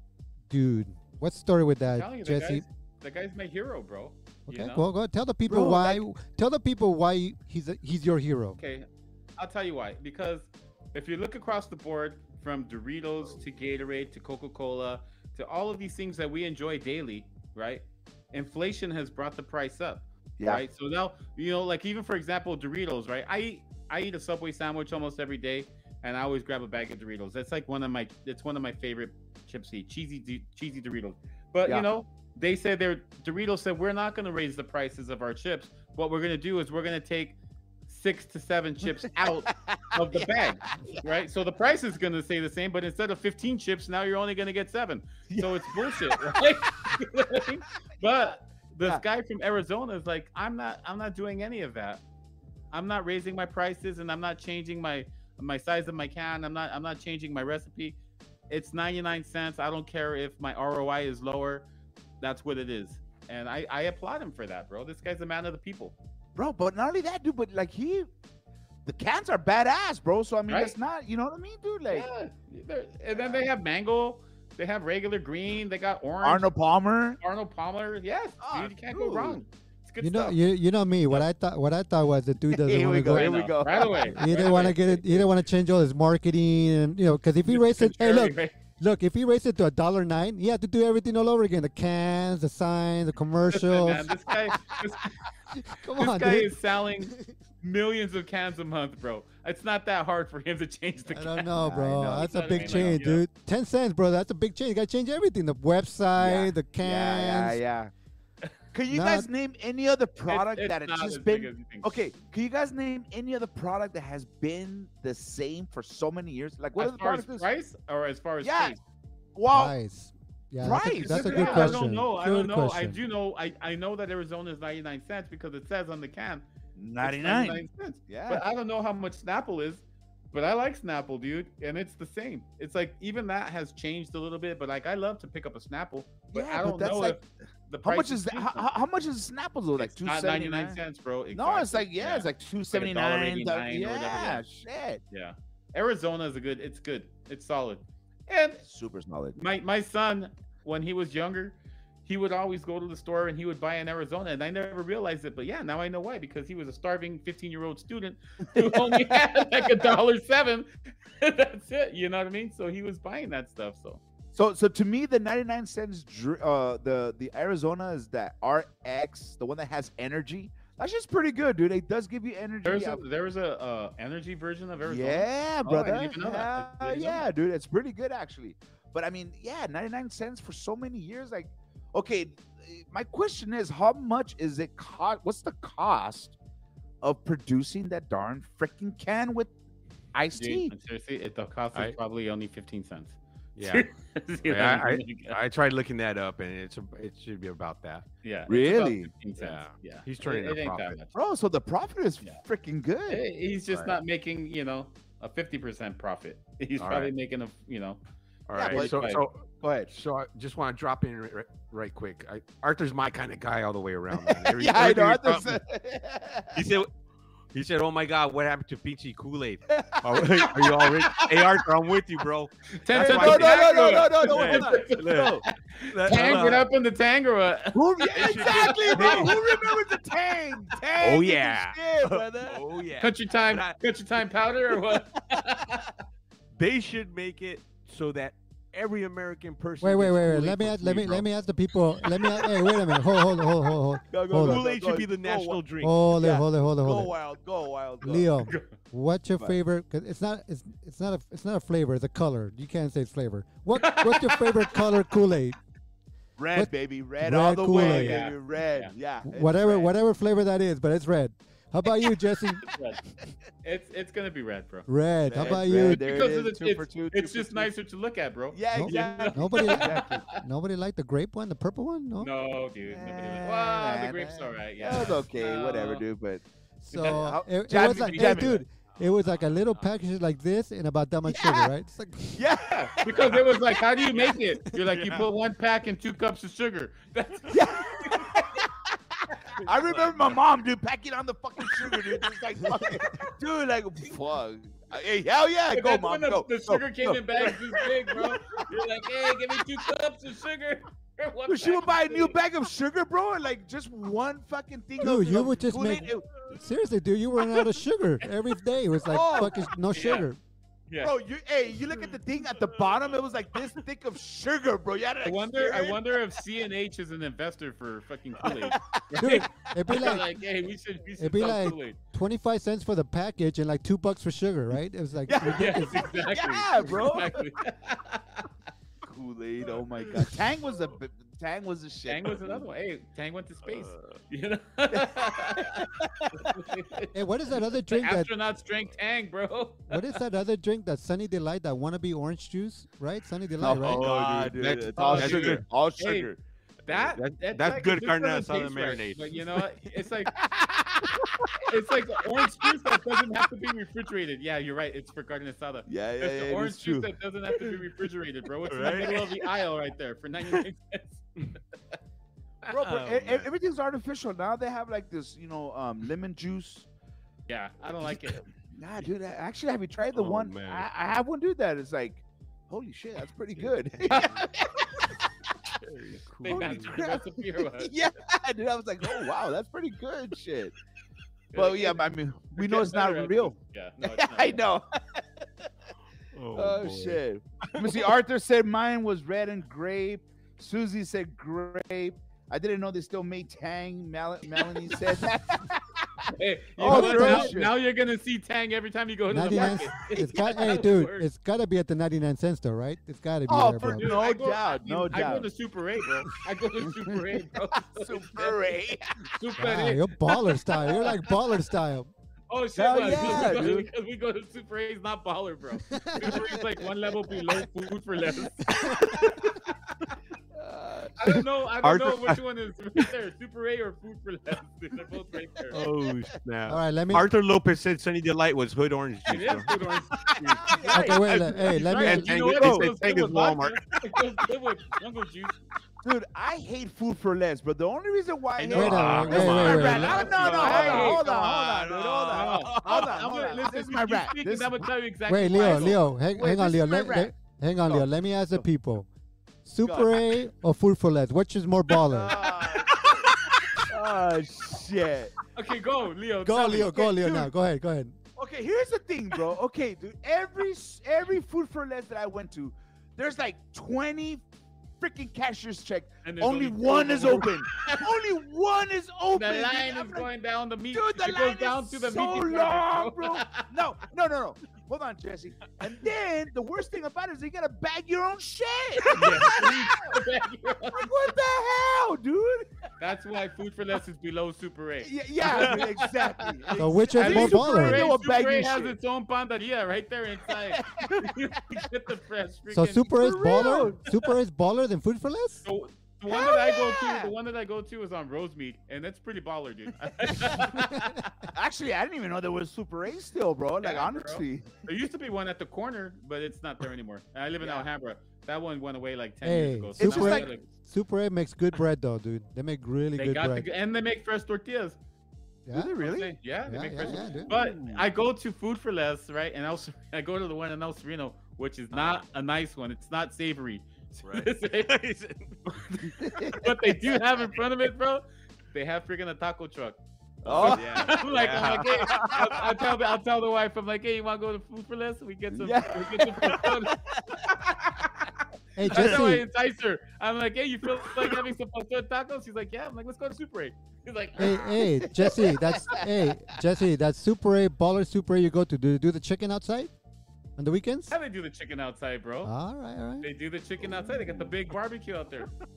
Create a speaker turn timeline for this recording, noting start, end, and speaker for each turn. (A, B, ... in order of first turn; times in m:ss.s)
0:00.5-0:02.6 A
0:02.0-0:04.8 B
0:04.5-0:08.6 A
0:05.5-0:06.0 C
0:08.6-0:08.8 B
0:09.4-0:37.4 B
0:37.9-0:52.0 B
0:39.1-0:40.3 C
0:45.3-0:46.4 C
0:52.7-0:58.0 B
0:58.5-1:01.6 B
1:02.2-1:05.9 B
1:06.4-1:08.1 C
1:08.8-1:12.1 C
1:10.5-1:10.7 B
1:11.9-1:16.5 B
1:13.1-1:13.4 C
1:16.2-1:17.2 C
1:17.2-1:20.4 B
1:18.4-1:19.4 C
1:20.0-1:23.5 A
1:22.5-1:24.8 C
1:23.1-1:25.2 B
1:24.0-1:34.1 A
1:27.5-1:28.5 B
1:33.5-1:35.2 B
1:35.5-1:36.5 A
1:35.9-1:41.5 B
1:41.1-1:47.6 A
1:41.5-1:43.0 C
1:42.1-1:43.2 B
1:46.2-1:47.9 C
1:48.7-1:57.5 C
1:48.9-1:49.3 A
1:50.3-1:52.0 B
1:56.8-1:58.8 B
1:58.4-1:58.7 C
1:59.3-1:59.7 C
1:59.5-2:03.0 A
2:00.6-2:01.8 C
2:00.6-2:06.4 B
2:06.8-2:08.4 C
2:07.0-2:18.7 B
2:16.3-2:17.2 C
2:17.8-2:20.8 C
2:19.8-2:24.4 B
2:21.3-2:25.0 C
2:25.1-2:28.6 B
2:28.6-2:29.4 C
2:29.3-2:40.7 B
2:38.6-2:39.0 C
2:41.2-2:44.0 B
2:44.3-2:53.0 C
2:52.6-2:57.2 B
2:54.8-3:06.3 C
3:07.0-3:09.5 C
3:10.1-3:10.7 C
3:10.3-3:15.4 B
3:13.6-3:13.8 D
3:14.4-3:18.0 D
3:18.2-3:21.1 B
3:18.5-3:19.1 C
3:19.4-3:20.9 D
3:21.1-3:23.2 C
3:23.1-3:28.0 B
3:23.7-3:24.0 D
3:26.8-3:27.1 D
3:28.5-3:35.6 D
3:28.5-3:29.0 C
3:28.7-3:29.2 B
3:29.6-3:29.9 C
3:34.1-3:36.6 C
3:36.5-3:36.9 D
3:37.5-3:46.7 D
3:39.7-3:41.4 C
3:42.8-3:49.8 B
3:42.9-3:45.4 C
3:47.7-3:52.6 C
3:48.1-3:49.6 D
3:51.0-3:53.8 D
3:53.0-3:55.9 B
3:56.6-4:01.3 D
3:59.8-4:04.6 A
4:04.1-4:05.6 C
4:04.3-4:06.0 D
4:05.8-4:07.1 A
4:06.2-4:08.3 C
4:08.0-4:15.6 A
4:08.4-4:08.7 B
4:13.7-4:14.7 B
4:16.4-4:19.9 C
4:16.5-4:18.2 A
4:17.7-4:18.9 B
4:19.2-4:22.7 A
4:22.6-4:23.0 B
4:23.6-4:24.9 B
4:24.9-4:26.0 A
4:25.3-4:27.7 C
4:25.4-4:30.4 B
4:28.5-4:30.2 C
4:28.7-4:32.3 A
4:32.2-4:36.0 B
4:32.8-4:36.4 C
4:36.8-4:42.4 A
4:36.9-4:38.6 B
4:37.0-4:38.6 C
4:38.9-4:39.8 D
4:41.3-4:41.7 C
4:42.4-4:43.7 C
4:42.7-4:48.7 B
4:44.8-4:45.3 D
4:47.5-4:48.7 C
4:49.5-4:50.4 B
4:49.6-4:58.8 C
4:51.8-4:53.3 B
4:55.7-5:02.4 B
5:01.5-5:06.3 C
5:05.0-5:10.4 A
5:09.1-5:09.7 C
5:09.9-5:10.3 B
5:11.0-5:16.2 C
5:11.9-5:13.1 D
5:15.2-5:22.0 B
5:19.2-5:20.2 A
5:21.2-5:26.1 A
5:25.3-5:27.4 C
5:25.5-5:28.5 B
5:29.0-5:32.6 C
5:32.1-5:40.2 B
5:33.7-5:34.2 D
5:34.9-5:36.0 C
5:37.1-5:38.3 A
5:39.9-5:44.0 A
5:43.6-5:45.6 D
5:43.6-5:46.4 C
5:44.9-5:46.3 B
5:46.8-5:50.3 B
5:46.9-5:49.6 D
5:50.3-5:51.6 C
5:51.2-5:51.4 D
5:51.6-6:01.2 B
5:55.9-5:57.1 C
5:58.7-5:59.4 D
6:02.6-6:03.5 D
6:02.7-6:06.9 C
6:07.5-6:08.4 B
6:08.7-6:15.7 C
6:10.1-6:10.9 D
6:14.0-6:14.5 B
6:15.8-6:16.9 D
6:16.4-6:17.9 B
6:16.4-6:20.7 C
6:21.5-6:24.6 B
6:21.5-6:25.5 C
6:26.3-6:28.1 D
6:26.5-6:37.7 C
6:36.3-6:41.3 B
6:36.8-6:37.6 A
6:39.3-6:44.2 A
6:39.5-6:39.9 C
6:43.5-6:45.5 C
6:44.0-6:48.7 B
6:46.9-6:47.1 C
6:47.9-6:49.2 C
6:49.3-6:51.2 B
6:49.6-6:52.1 A
6:52.5-6:58.7 B
6:52.8-6:53.9 C
6:55.9-6:56.4 A
6:56.3-6:56.6 C
6:58.7-6:59.2 A
7:00.5-7:01.1 C
7:01.2-7:05.8 B
7:01.2-7:02.4 D
7:05.7-7:09.7 D
7:06.7-7:07.3 A
7:09.3-7:15.6 B
7:10.6-7:11.4 C
7:10.9-7:12.9 A
7:12.0-7:14.0 D
7:16.0-7:24.8 C
7:18.6-7:21.3 B
7:18.7-7:20.4 A
7:18.8-7:23.2 D
7:22.3-7:26.0 B
7:25.3-7:29.1 A
7:25.6-7:27.3 C
7:27.8-7:28.6 C
7:29.6-7:32.3 A
7:29.8-7:30.2 C
7:32.0-7:33.3 C
7:32.3-7:33.1 B
7:33.9-7:35.3 C
7:35.5-7:37.4 B
7:36.4-7:38.2 A
7:38.4-7:44.4 C
7:45.0-7:50.3 C
7:46.2-7:48.1 B
7:49.3-7:53.6 B
7:50.9-8:00.2 C
7:59.0-7:59.6 D
7:59.1-8:01.3 B
8:01.0-8:02.7 C
8:03.0-8:13.9 B
8:05.0-8:09.0 C
8:05.4-8:05.9 D
8:06.8-8:08.1 A
8:10.7-8:11.3 C
8:12.7-8:15.6 A
8:13.1-8:14.0 C
8:15.6-8:21.3 B
8:16.3-8:17.3 C
8:20.8-8:21.0 A
8:21.5-8:24.7 C
8:23.8-8:30.7 B
8:27.6-8:27.9 C
8:29.4-8:33.7 A
8:30.0-8:30.5 C
8:33.2-8:35.0 B
8:35.7-8:35.9 A
8:35.7-8:36.3 C
8:36.0-8:44.9 B
8:36.7-8:37.5 A
8:37.0-8:38.0 C
8:41.9-8:42.2 D
8:44.2-8:46.6 D
8:46.0-8:58.3 B
8:46.2-8:46.7 C
8:50.4-8:52.6 D
8:50.4-8:51.1 C
8:55.5-8:57.6 C
8:58.8-8:59.4 A
8:58.8-9:05.3 B
8:58.9-8:59.1 C
9:04.4-9:09.9 A
9:05.2-9:06.0 C
9:10.6-9:11.1 A
9:11.1-9:12.5 B
9:12.4-9:13.3 A
9:13.2-9:15.5 B